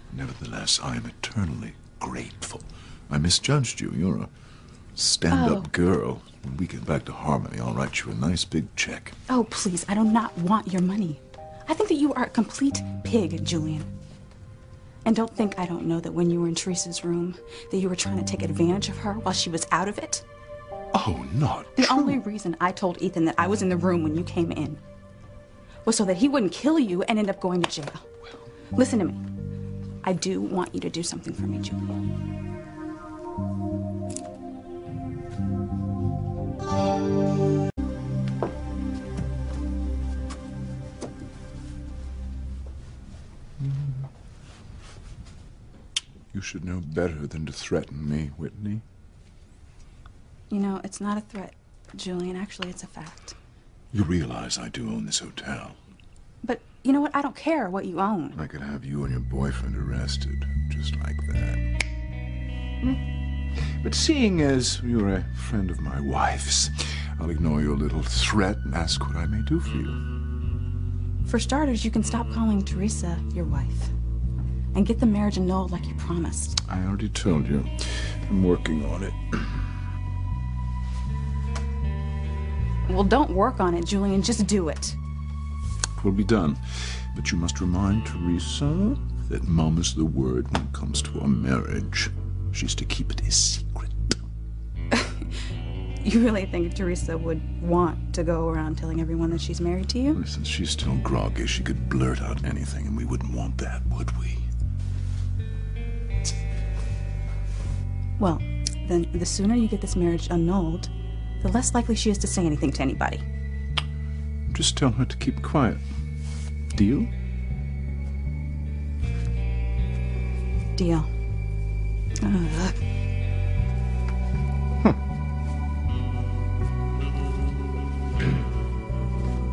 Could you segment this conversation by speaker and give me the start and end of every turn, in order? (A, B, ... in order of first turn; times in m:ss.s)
0:00.1-0:04.3 A
0:05.0-0:09.2 A
0:05.3-0:05.7 B
0:09.3-0:13.9 B
0:15.0-0:20.2 B
0:20.9-0:22.2 A
0:21.8-0:24.8 B
0:25.9-0:28.0 B
0:28.8-0:29.2 B
0:30.0-0:32.0 B
0:46.3-0:48.8 A
0:50.5-0:53.3 B
0:53.9-0:55.8 A
0:56.4-0:58.4 B
0:58.4-1:01.7 A
1:03.8-1:10.0 A
1:11.2-1:13.9 B
1:14.7-1:16.6 B
1:16.7-1:19.6 A
1:22.9-1:25.0 B
1:26.0-1:34.2 A
1:36.0-1:40.2 B
1:40.1-1:44.5 A
1:48.2-1:53.2 B
1:54.5-1:55.8 A
1:56.7-1:57.1 A
2:00.8-2:01.1 B
2:02.2-2:02.8 B